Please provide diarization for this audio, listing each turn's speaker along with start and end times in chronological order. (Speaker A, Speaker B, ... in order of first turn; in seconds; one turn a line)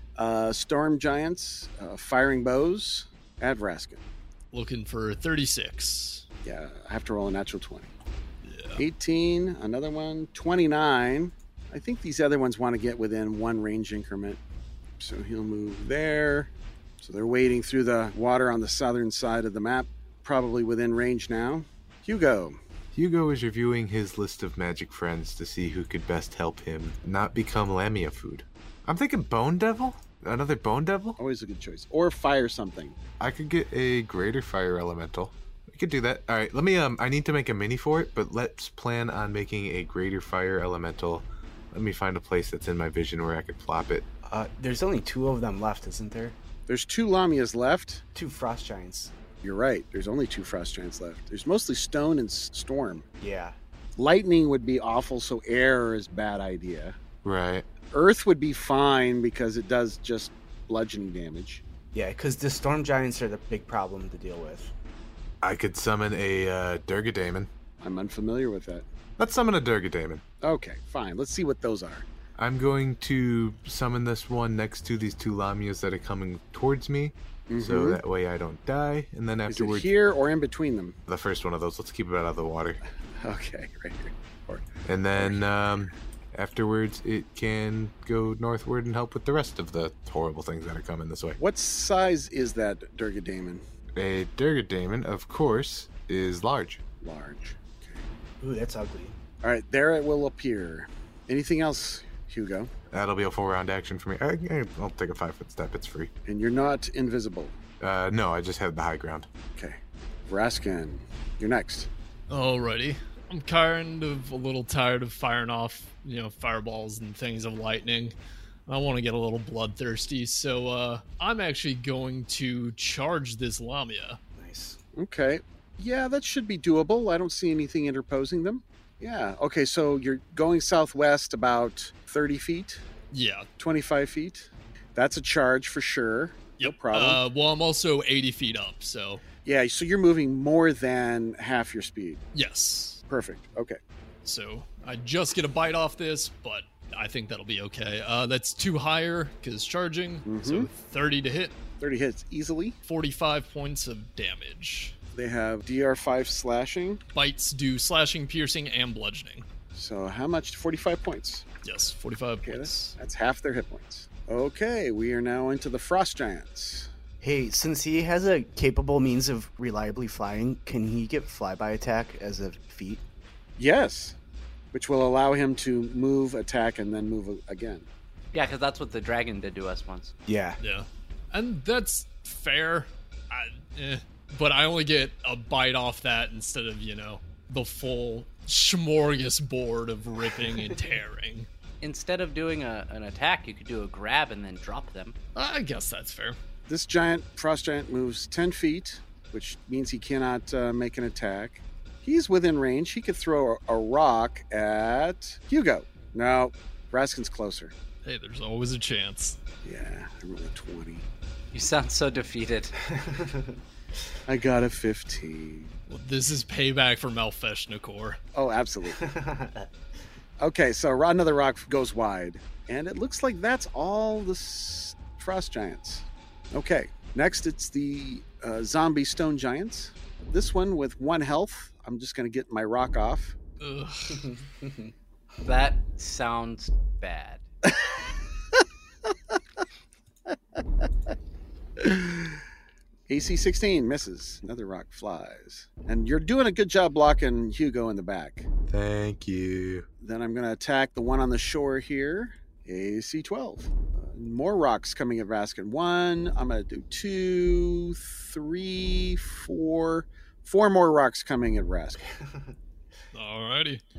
Speaker A: 0.2-4.0
Speaker B: 4.5-6.2
Speaker A: 6.4-7.9
Speaker B: 8.4-8.8
Speaker A: 8.8-14.4
Speaker A: 15.0-22.6
Speaker C: 22.9-31.2
Speaker A: 31.2-33.0
Speaker C: 33.2-44.0
Speaker D: 44.2-46.4
Speaker A: 46.7-48.0
Speaker D: 48.1-49.1
Speaker A: 49.4-53.0
Speaker D: 53.2-53.5
Speaker A: 54.0-57.0
Speaker C: 57.2-57.7
Speaker A: 57.9-61.6
Speaker D: 61.9-64.7
Speaker C: 65.4-67.5
Speaker A: 67.8-68.9
Speaker C: 69.2-70.2
Speaker A: 70.4-72.0
Speaker C: 72.4-79.9
Speaker A: 77.5-78.0
Speaker A: 79.5-81.0
Speaker C: 81.1-82.8
Speaker A: 83.2-85.4
Speaker C: 84.8-91.4
Speaker A: 91.4-93.6
Speaker C: 94.0-96.8
Speaker A: 97.0-98.0
Speaker D: 98.4-99.2
Speaker A: 99.4-102.7
Speaker C: 102.9-106.1
Speaker A: 106.2-107.6
Speaker C: 107.8-109.3
Speaker A: 109.5-111.9
Speaker B: 112.3-118.1
Speaker B: 118.7-124.2
Speaker D: 124.4-124.8
Speaker A: 125.0-132.8
Speaker B: 133.1-133.5
Speaker A: 133.6-137.2
Speaker B: 136.6-139.2
Speaker A: 139.4-142.2
Speaker B: 142.3-143.0
Speaker A: 143.1-143.8
Speaker B: 144.2-151.6
Speaker A: 150.3-150.7
Speaker A: 151.8-152.8
Speaker B: 152.9-154.9
Speaker A: 155.1-157.0
Speaker B: 157.1-159.4
Speaker A: 159.7-161.4
Speaker B: 161.6-162.9
Speaker A: 162.4-166.9
Speaker D: 167.2-173.0
Speaker A: 173.6-174.2
Speaker A: 174.7-177.9
Speaker E: 178.3-180.1
Speaker D: 180.3-180.6
Speaker B: 180.6-191.5
Speaker E: 191.8-195.2
Speaker B: 195.3-196.4
Speaker A: 196.7-207.7
Speaker B: 208.1-209.4
Speaker A: 209.6-211.1
Speaker E: 211.5-212.8
Speaker D: 212.8-213.6
Speaker A: 214.3-215.7
Speaker B: 215.9-218.2
Speaker A: 218.3-219.1
Speaker D: 218.9-219.7
Speaker A: 220.4-233.4
Speaker B: 233.6-234.3
Speaker D: 234.1-234.9
Speaker E: 235.4-237.4
Speaker A: 241.8-242.4
Speaker A: 243.1-248.5
Speaker C: 248.7-249.9
Speaker A: 250.0-262.1
Speaker D: 262.1-262.5
Speaker B: 263.1-263.8